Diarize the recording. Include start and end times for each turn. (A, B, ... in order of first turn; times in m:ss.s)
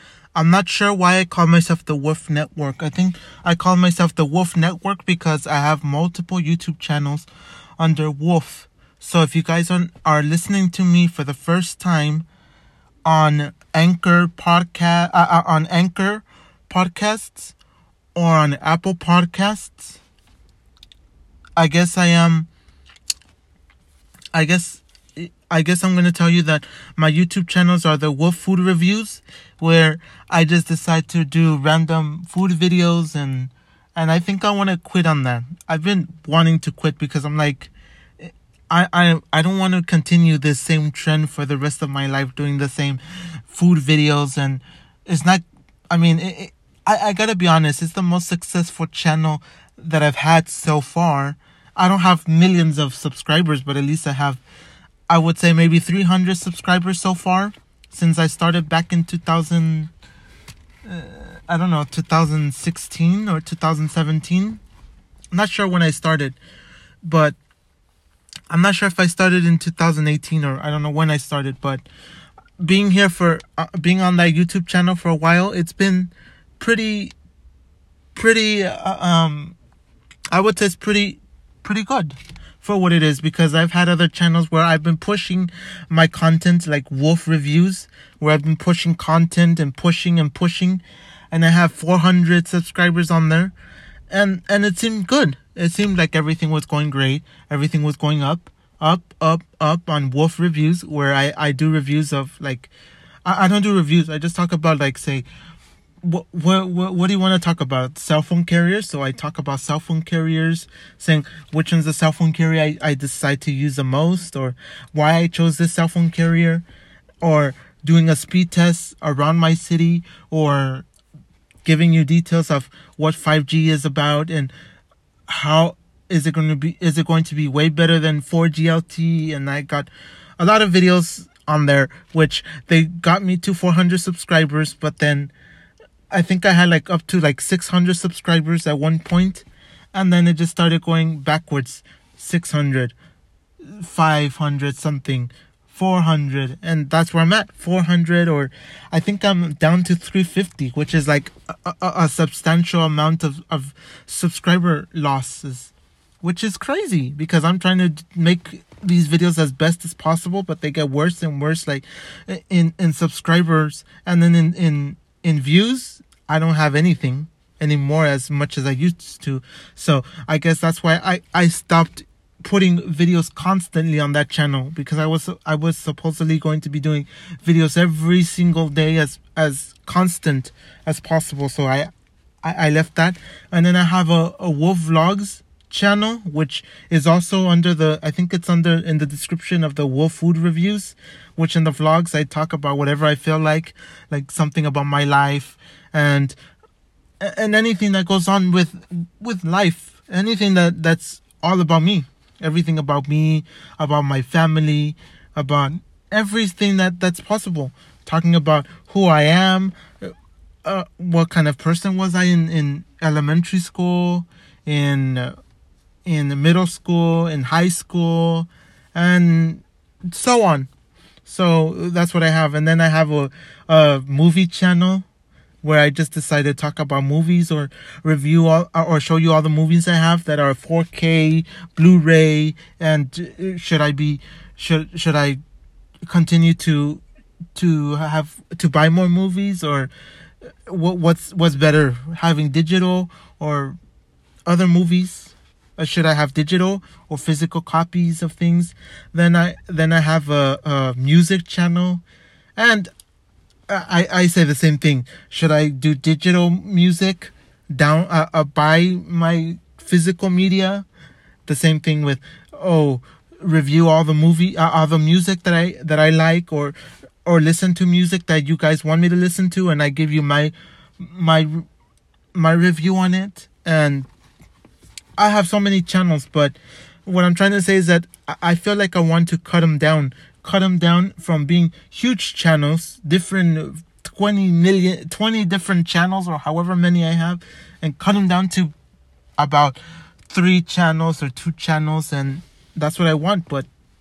0:00.3-0:07.3 A
0:07.8-0:12.2 A
0:13.0-0:17.5 A
0:18.1-0:20.0 A
0:21.6-0:22.5 A
0:24.3-0:54.4 A
0:55.1-0:59.9 A
1:00.8-1:04.6 A
1:05.3-1:06.4 A
1:07.0-1:07.4 A
1:08.5-1:11.8 A
1:12.6-1:17.1 A
1:18.1-1:19.6 A
1:20.3-1:33.5 A
1:34.1-1:42.7 A
1:43.2-1:45.2 A
1:46.0-1:56.6 A
1:57.2-2:00.8 A
2:01.6-2:04.5 A
2:05.3-2:15.3 A
2:16.1-2:22.9 A
2:23.6-3:01.9 A
3:02.4-3:16.4 A
3:17.2-3:30.1 A
3:30.6-3:35.4 A
3:36.0-3:40.7 A
3:41.2-3:45.0 A
3:45.6-3:55.4 A
3:56.0-3:57.0 A
3:57.5-3:59.9 A
4:00.6-4:03.8 A
4:04.4-4:12.0 A
4:12.6-4:12.9 A
4:13.7-4:20.8 A
4:21.4-4:31.6 A
4:32.3-4:34.1 A
4:35.2-4:48.7 A
4:49.4-4:53.7 A